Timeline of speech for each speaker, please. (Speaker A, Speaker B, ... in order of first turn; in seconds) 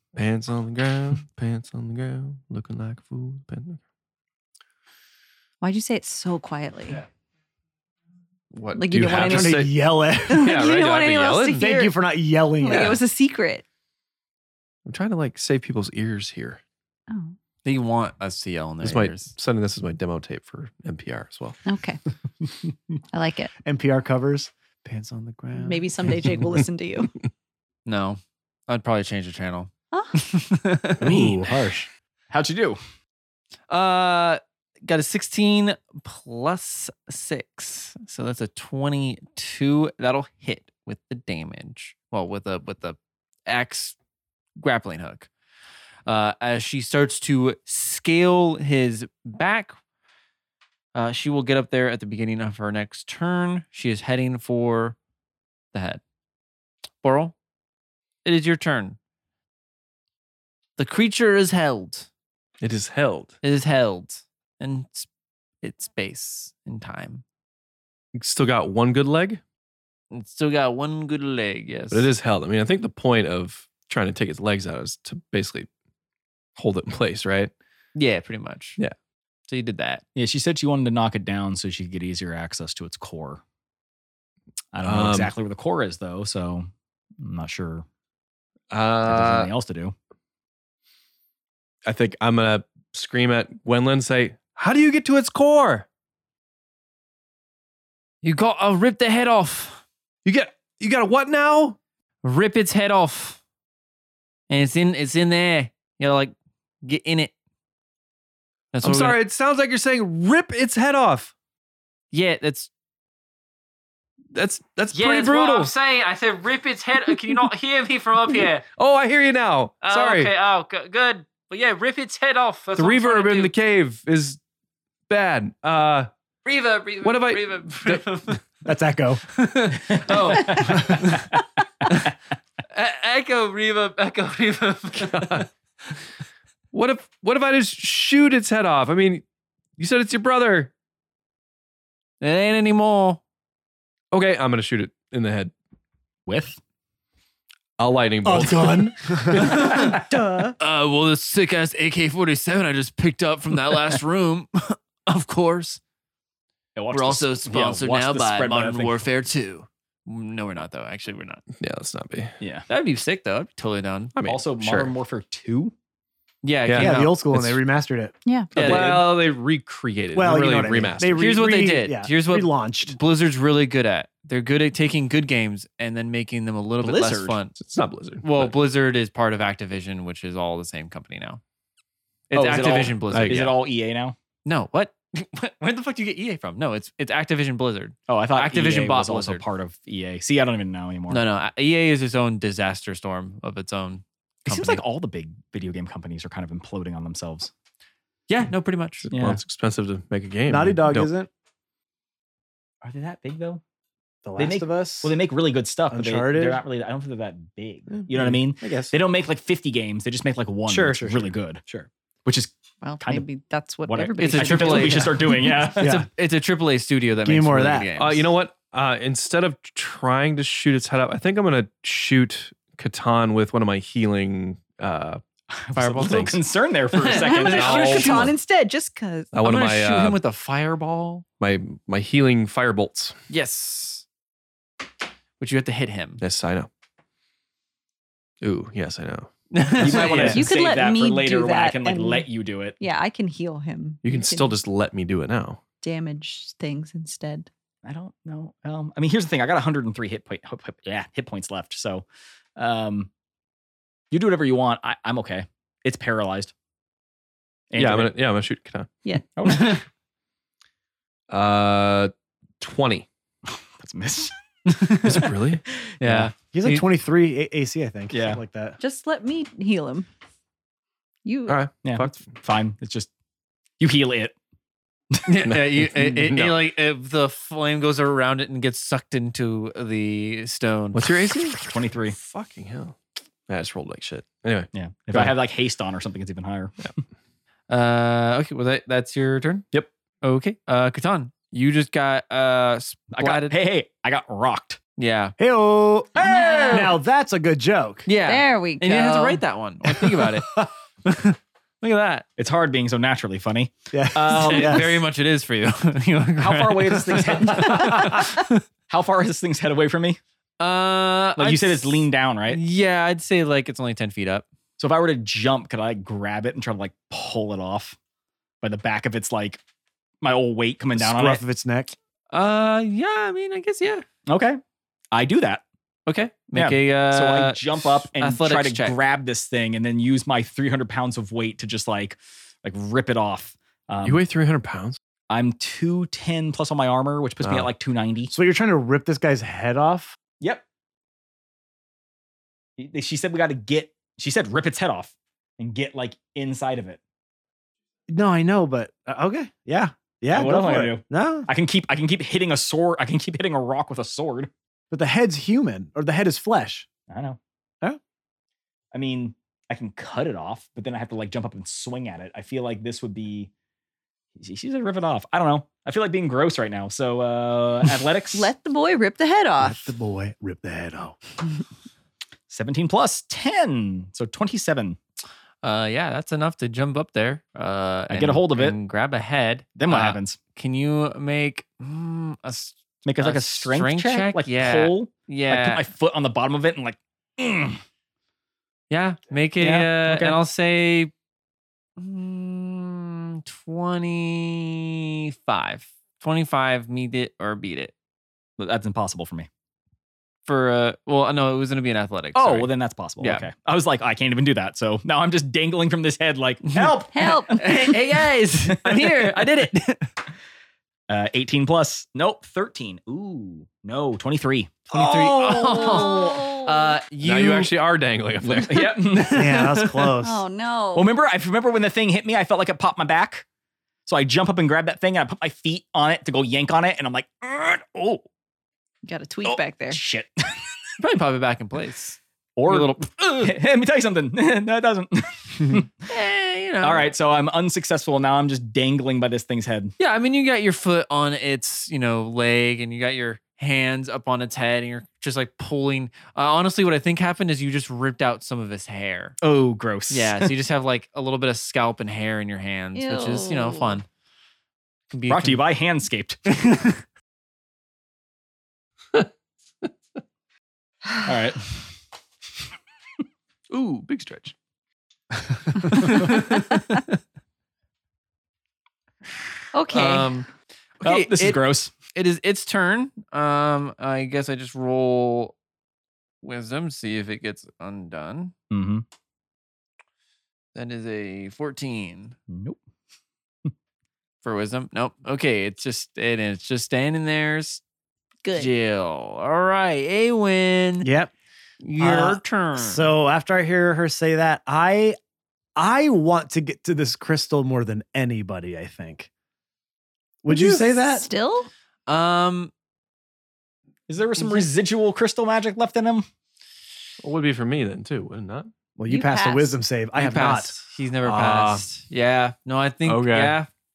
Speaker A: 0.1-3.8, 8.5-9.7, 10.3-11.6, 14.9-16.6, 18.8-21.6, 31.1-31.6, 62.6-63.4, 68.1-69.4, 71.9-75.7, 76.6-77.5, 84.8-85.3, 88.7-89.5, 91.8-95.9, 100.2-101.8, 108.8-111.3, 114.3-115.7, 118.6-120.3, 122.8-124.4, 125.1-126.1, 127.0-128.1, 135.0-135.4, 136.7-139.2, 139.8-140.7, 144.1-145.5, 147.8-149.8, 161.6-162.3, 164.2-164.9, 166.7-167.6, 168.5-171.3, 177.6-178.5, 183.1-183.4, 199.1-201.1, 218.0-225.2, 227.5-228.3, 229.3-230.2, 231.4-233.1, 236.2-236.7, 238.4-239.3, 239.8-240.3, 244.0-245.6, 257.8-258.9, 261.3-263.1, 265.1-265.6, 271.5-272.4, 275.4-276.6, 280.9-285.4, 334.1-335.0, 337.4-337.7, 417.2-419.0, 463.7-464.6, 507.2-508.7, 511.2-511.8, 513.1-513.6
Speaker B: 5.6-7.0, 8.8-9.6, 10.3-12.0, 12.6-13.6, 17.1-17.4, 21.7-22.0, 23.1-23.5, 25.6-27.1, 212.8-215.4, 227.1-229.3, 240.2-242.3, 242.8-244.6, 245.8-247.5, 268.8-270.1, 271.2-271.6, 296.2-296.9, 298.2-299.4, 368.3-369.9, 407.1-407.9, 415.5-416.9, 420.2-421.1, 429.1-430.0, 452.9-454.0, 469.7-470.4, 488.4-488.7, 500.5-501.7, 509.1-509.8
Speaker C: 9.2-10.6, 11.5-13.0, 23.6-25.9, 31.0-31.9, 128.6-129.2, 130.7-131.1, 148.2-150.6, 166.8-168.1, 170.1-172.9, 200.5-201.3, 204.2-205.1, 205.9-206.6, 207.9-208.9, 210.7-211.9, 215.8-216.1, 217.2-217.9, 266.5-268.8, 295.4-298.1, 300.2-300.7, 303.9-305.0, 320.9-321.9, 338.3-340.2, 348.1-351.5, 354.9-356.9, 369.6-371.2, 419.3-420.4, 491.0-491.3, 492.0-495.2, 495.8-499.3, 500.4-501.3, 509.0-510.7
Speaker D: 17.6-19.3, 27.9-31.4, 33.7-44.0, 44.6-45.3, 46.1-49.8, 51.0-55.0, 55.7-56.0, 57.0-57.4, 58.2-59.0, 60.8-62.1, 63.4-65.1, 65.6-67.2, 70.1-72.1, 78.0-78.8, 79.5-80.0, 98.2-99.8, 102.2-103.4, 104.5-107.3, 108.7-109.2, 112.1-112.7, 114.9-118.6, 119.8-123.5, 126.5-128.4, 129.3-131.3, 132.7-135.5, 142.2-143.2, 149.4-150.0, 150.6-155.8, 156.9-161.4, 162.7-164.1, 166.4-167.2, 168.6-169.0, 171.2-177.6, 178.2-181.4, 182.3-183.6, 184.4-189.4, 191.1-194.8, 198.3-199.1, 214.2-218.3, 225.8-226.4, 226.9-228.3, 229.4-231.2, 233.3-234.1, 235.4-236.2, 239.5-240.4, 259.4-259.8, 264.7-265.3, 266.0-266.9, 275.3-281.1, 287.7-289.7, 290.2-293.6, 295.0-295.4, 296.3-296.6, 298.1-302.3, 304.3-308.6, 310.6-314.4, 322.3-324.1, 326.1-329.0, 375.6-385.9, 388.9-391.1, 392.0-397.9, 400.4-403.5, 406.8-410.1, 414.9-417.8, 418.8-420.1, 431.0-433.5, 436.1-437.1, 440.0-449.4, 450.1-454.1, 455.1-455.6, 456.5-457.0, 465.9-467.0, 469.9-470.5, 471.0-475.6, 476.4-478.5, 480.8-482.4, 484.4-487.8, 488.6-491.1, 491.8-493.1, 502.1-502.7, 510.2-513.7
Speaker E: 32.3-32.8, 80.1-83.4, 84.7-86.7, 87.2-87.9, 89.0-90.0, 129.9-131.2, 146.3-146.6, 156.8-159.0, 162.4-162.7, 164.2-165.7, 168.6-169.1, 176.8-177.4, 182.3-184.2, 188.1-191.2, 194.4-197.5, 199.1-199.4, 202.8-203.6, 204.4-213.2, 213.9-215.9, 225.5-228.3, 239.8-242.8, 247.8-252.1, 252.6-253.1, 254.1-256.5, 257.7-258.1, 259.4-259.8, 263.5-264.3, 265.9-266.3, 268.1-268.4, 271.8-273.1, 273.8-274.4, 281.6-282.2, 284.7-286.9, 293.1-294.8, 302.4-304.9, 306.4-310.2, 311.4-312.6, 314.8-317.9, 318.6-319.6, 320.2-321.4, 324.3-324.6, 325.1-325.6, 326.5-334.2, 335.3-338.3, 340.4-340.6, 342.8-347.0, 350.3-354.5, 357.1-357.4, 358.9-363.5, 364.4-368.5, 372.5-375.0, 378.1-378.8, 379.8-380.4, 383.1-387.8, 389.6-390.4, 398.6-399.5, 402.4-407.9, 408.7-409.5, 411.1-416.0, 418.4-419.6, 420.9-423.4, 424.1-428.3, 429.4-430.6, 432.6-435.9, 436.8-439.9, 449.4-450.5, 455.3-456.4, 461.2-461.8, 471.0-471.9, 478.7-479.1, 482.5-482.8, 504.1-506.3